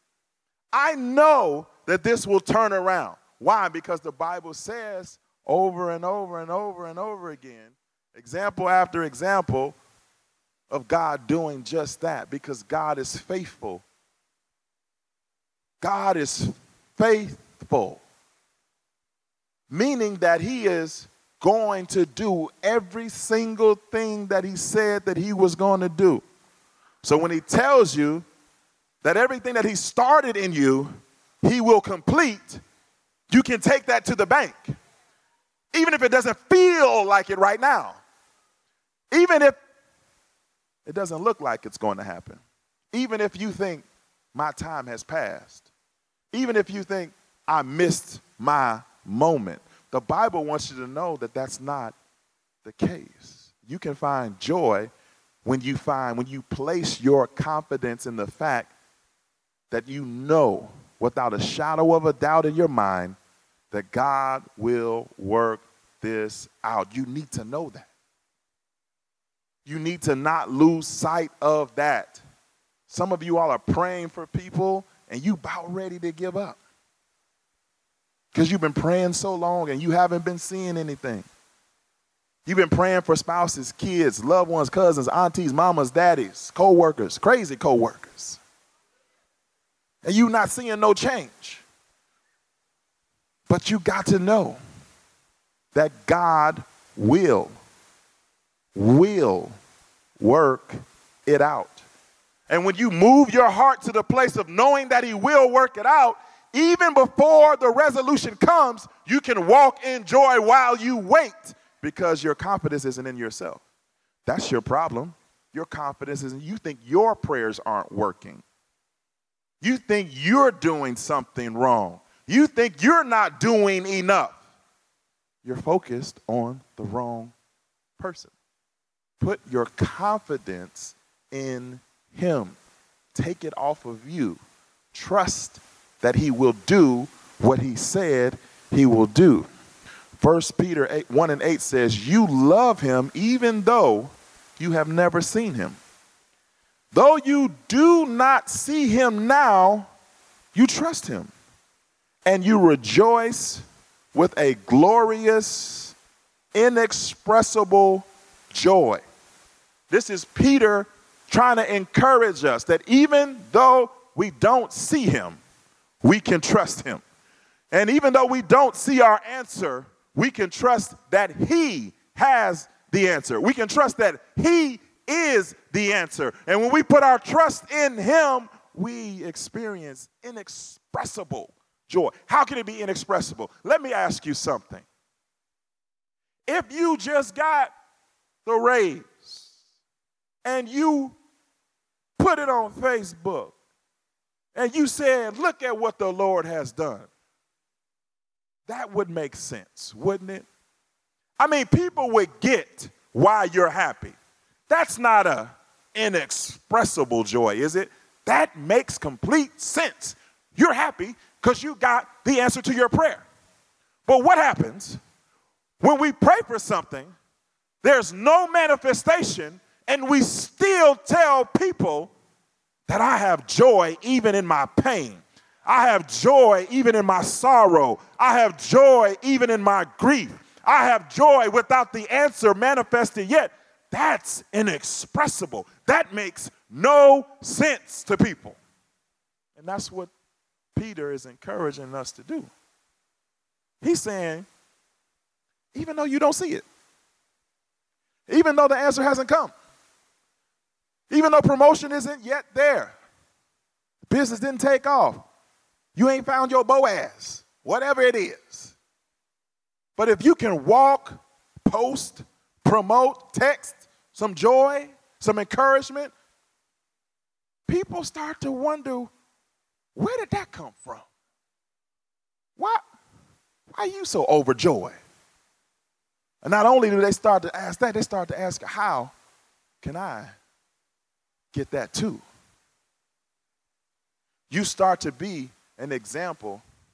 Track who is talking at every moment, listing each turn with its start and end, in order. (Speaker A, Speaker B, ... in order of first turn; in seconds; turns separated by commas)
Speaker A: 0.7-9.8, Speaker A: 10.7-13.8, Speaker A: 15.8-18.0, Speaker A: 19.7-26.2, Speaker A: 27.0-28.2, Speaker A: 29.0-32.6, Speaker A: 33.3-34.7, Speaker A: 35.7-38.0, Speaker A: 39.1-39.6, Speaker A: 40.9-42.4, Speaker A: 42.9-45.7, Speaker A: 46.3-52.0, Speaker A: 52.6-54.9, Speaker A: 55.5-58.7, Speaker A: 59.7-63.2, Speaker A: 63.7-67.9, Speaker A: 69.7-72.2, Speaker A: 72.9-76.6, Speaker A: 78.3-81.3, Speaker A: 82.5-88.4, Speaker A: 90.0-91.6, Speaker A: 93.5-94.6, Speaker A: 95.7-97.5, Speaker A: 98.8-99.6, Speaker A: 100.2-101.8, Speaker A: 102.5-113.6, Speaker A: 114.3-118.4, Speaker A: 119.6-124.4, Speaker A: 125.4-127.3, Speaker A: 128.0-128.3, Speaker A: 129.2-132.6, Speaker A: 133.1-134.4, Speaker A: 134.9-139.5, Speaker A: 140.2-145.8, Speaker A: 146.9-149.9, Speaker A: 150.5-151.3, Speaker A: 152.2-155.9, Speaker A: 156.5-159.0, Speaker A: 159.9-165.4, Speaker A: 166.0-167.0, Speaker A: 167.7-184.9, Speaker A: 186.5-187.7, Speaker A: 188.5-189.5, Speaker A: 190.4-191.2, Speaker A: 192.2-193.6, Speaker A: 194.6-197.1, Speaker A: 198.7-200.5, Speaker A: 201.4-204.2, Speaker A: 204.7-213.2, Speaker A: 214.1-215.0, Speaker A: 215.8-217.1, Speaker A: 217.8-222.1, Speaker A: 222.9-238.6, Speaker A: 239.6-240.1, Speaker A: 240.8-242.5, Speaker A: 243.8-244.5, Speaker A: 245.7-246.7, Speaker A: 248.3-249.5, Speaker A: 251.1-252.9, Speaker A: 254.1-255.2, Speaker A: 256.0-258.7, Speaker A: 260.0-266.1, Speaker A: 267.7-269.1, Speaker A: 270.0-271.1, Speaker A: 272.6-272.8, Speaker A: 273.7-275.0, Speaker A: 276.4-279.1, Speaker A: 279.8-280.3, Speaker A: 281.5-282.2, Speaker A: 284.5-286.6